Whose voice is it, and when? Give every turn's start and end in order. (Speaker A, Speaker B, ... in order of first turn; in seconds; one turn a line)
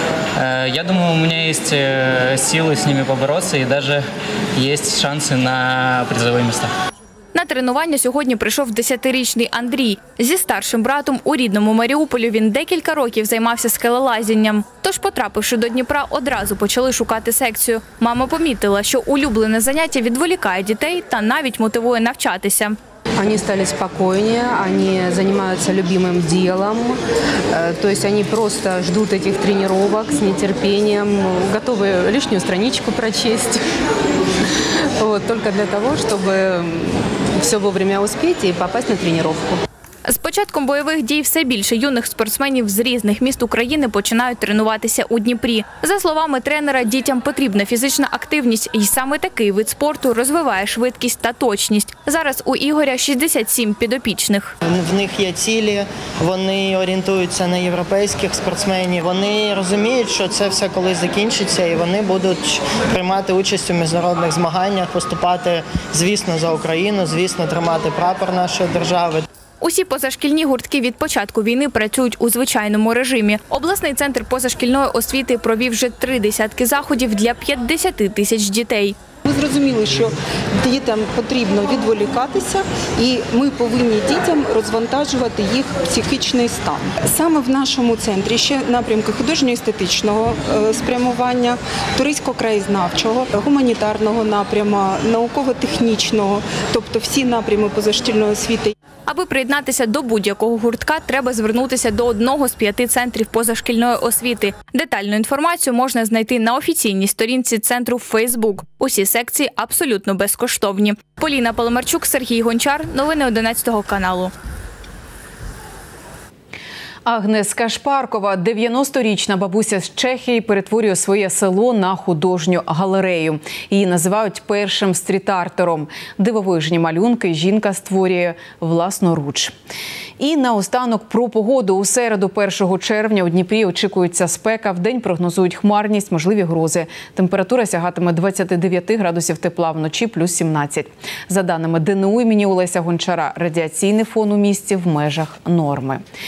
Speaker A: 0.4-6.7
Speaker B: 7.3-22.8
Speaker C: 23.2-27.0
Speaker C: 27.5-33.6
Speaker C: 35.0-39.6
Speaker B: 40.1-54.5
Speaker D: 54.8-59.3
Speaker D: 65.6-69.2
Speaker B: 69.6-79.0
Speaker E: 79.3-80.1
Speaker E: 80.6-98.7
Speaker B: 99.1-114.3
Speaker F: 117.1-129.5
Speaker F: 130.2-146.0